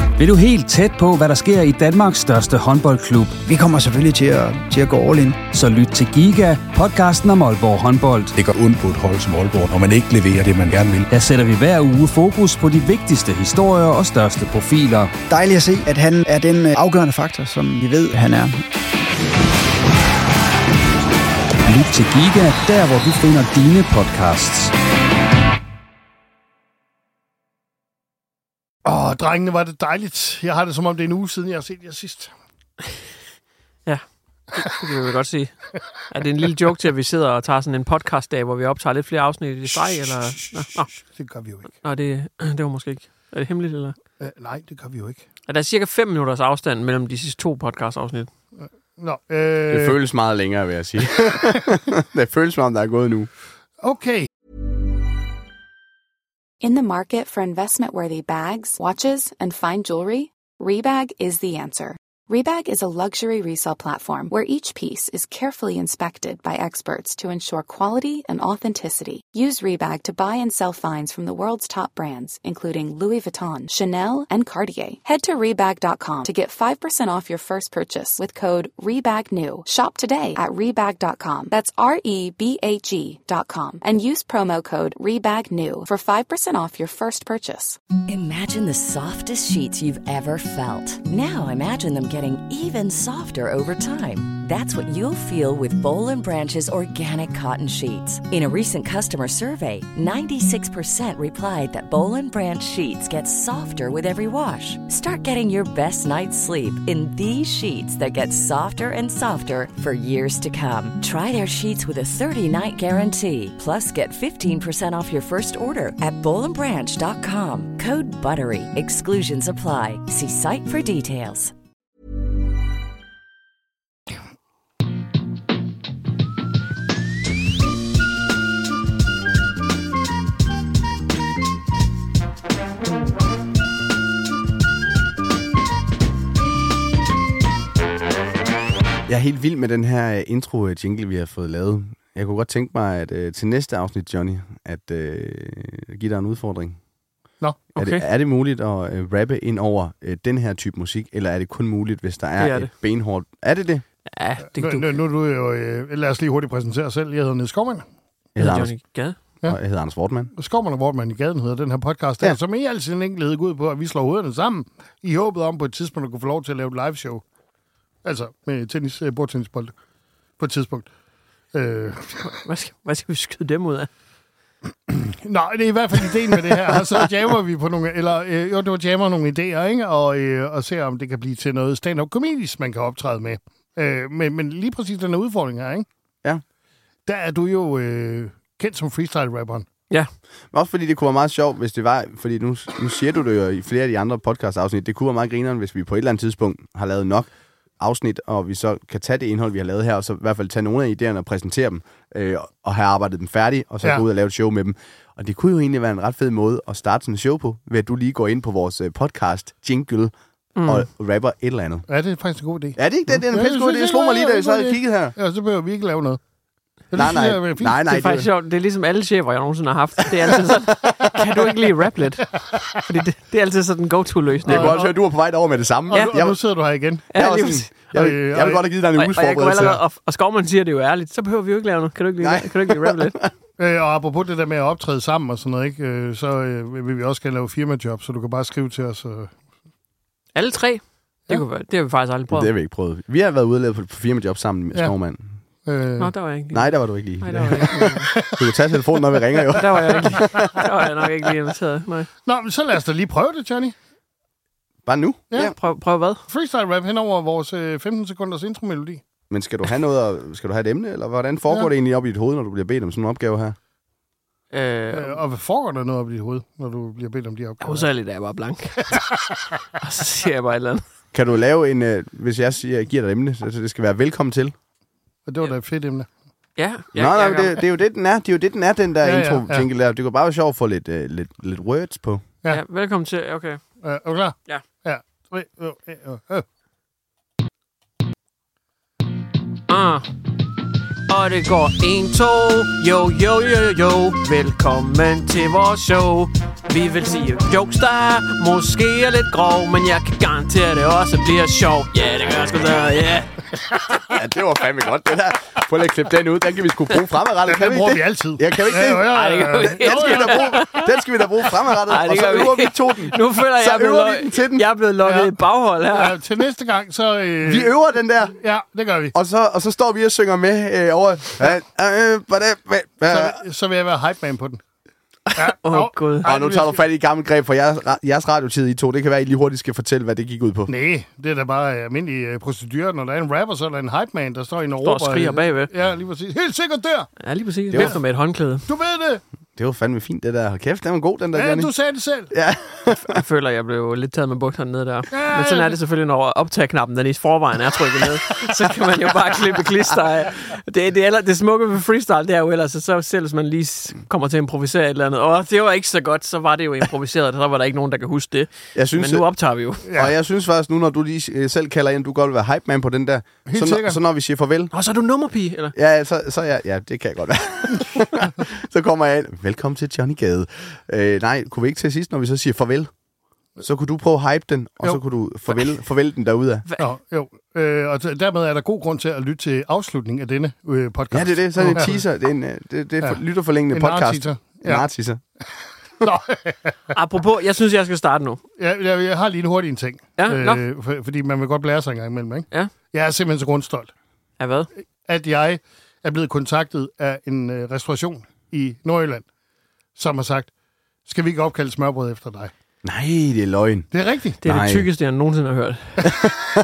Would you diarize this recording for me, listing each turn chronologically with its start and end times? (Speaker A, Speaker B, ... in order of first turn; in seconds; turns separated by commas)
Speaker A: 0.1-3.5, Speaker B: 3.5-5.4, Speaker A: 5.4-8.3, Speaker C: 8.3-11.1, Speaker A: 11.1-15.1, Speaker B: 15.3-18.6, Speaker A: 21.6-24.7, Speaker D: 28.8-32.3, Speaker E: 33.9-40.9, Speaker D: 40.5-41.7, Speaker E: 41.8-44.0, Speaker D: 44.2-45.2, Speaker E: 45.5-48.3, Speaker D: 49.0-50.0, Speaker F: 49.7-53.3, Speaker D: 53.8-54.3, Speaker G: 56.6-87.8, Speaker H: 88.1-121.5, Speaker F: 139.1-146.8, Speaker F: 147.7-153.8, Speaker E: 147.8-148.0, Speaker E: 152.4-152.7, Speaker E: 154.1-154.8, Speaker D: 154.6-157.8, Speaker F: 158.3-158.7, Speaker E: 158.4-159.2, Speaker F: 159.5-160.3, Speaker D: 160.3-167.2, Speaker D: 168.0-169.7, Speaker D: 170.4-170.9, Speaker D: 171.5-172.4, Speaker E: 172.2-173.9, Speaker D: 174.9-185.8, Speaker D: 187.1-189.7, Speaker F: 190.5-210.1, Speaker E: 210.6-210.8, Speaker F: 210.6-211.8, Speaker D: 211.9-212.8, Speaker F: 212.8-215.1, Speaker D: 213.3-216.2, Speaker D: 216.9-217.8, Speaker F: 216.9-218.3, Speaker E: 217.9-224.9, Speaker F: 224.4-226.4, Speaker D: 224.5-224.8, Speaker D: 225.9-227.1, Speaker E: 227.1-227.7, Speaker F: 227.1-229.8, Speaker D: 227.9-228.6, Speaker E: 228.9-233.2, Speaker F: 232.2-233.3, Speaker D: 233.6-239.3, Speaker E: 240.3-242.5, Speaker F: 242.3-245.3, Speaker D: 245.7-246.1, Speaker E: 246.0-248.1, Speaker F: 246.5-250.7, Speaker D: 247.3-248.5, Speaker E: 249.5-252.1, Speaker D: 252.2-253.7, Speaker F: 254.8-255.5, Speaker E: 255.3-256.2, Speaker D: 256.3-259.0, Speaker F: 259.3-263.6, Speaker E: 264.5-265.2, Speaker D: 264.9-267.9, Speaker E: 267.6-269.2, Speaker E: 269.7-270.8, Speaker F: 271.1-274.5, Speaker D: 275.3-276.1, Speaker E: 276.6-277.6, Speaker F: 276.9-282.2, Speaker D: 279.0-279.7, Speaker E: 282.5-283.6, Speaker D: 283.8-286.4, Speaker E: 289.7-290.1, Speaker E: 291.1-303.3, Speaker F: 304.1-314.6, Speaker D: 307.4-310.6, Speaker E: 309.0-310.9, Speaker E: 311.8-316.1, Speaker D: 315.0-315.3, Speaker D: 315.9-317.7, Speaker F: 317.4-318.4, Speaker D: 318.4-319.1, Speaker F: 319.1-323.4, Speaker D: 323.1-324.6, Speaker E: 325.3-326.3, Speaker D: 325.3-326.8, Speaker F: 326.2-330.7, Speaker D: 330.7-337.1, Speaker E: 334.8-335.7, Speaker E: 337.2-338.6, Speaker F: 337.7-337.9, Speaker D: 337.7-338.0, Speaker D: 338.6-339.2, Speaker F: 339.6-341.7, Speaker D: 341.3-342.3, Speaker F: 342.3-343.2, Speaker E: 342.9-359.9, Speaker D: 345.1-345.8, Speaker F: 358.7-359.3, Speaker F: 359.9-364.7, Speaker D: 363.4-364.0, Speaker E: 364.7-365.7, Speaker F: 365.7-372.9, Speaker F: 373.6-376.6, Speaker D: 376.8-382.0, Speaker F: 381.1-385.2, Speaker D: 383.7-384.9, Speaker D: 386.0-386.9, Speaker E: 386.9-388.4, Speaker D: 388.6-393.9, Speaker E: 390.2-390.6, Speaker E: 394.4-394.7, Speaker D: 395.0-399.2, Speaker D: 399.9-400.5, Speaker D: 401.1-402.5, Speaker F: 402.8-403.9, Speaker D: 403.9-404.4, Speaker F: 404.4-404.9, Speaker E: 404.4-406.2, Speaker F: 406.0-406.4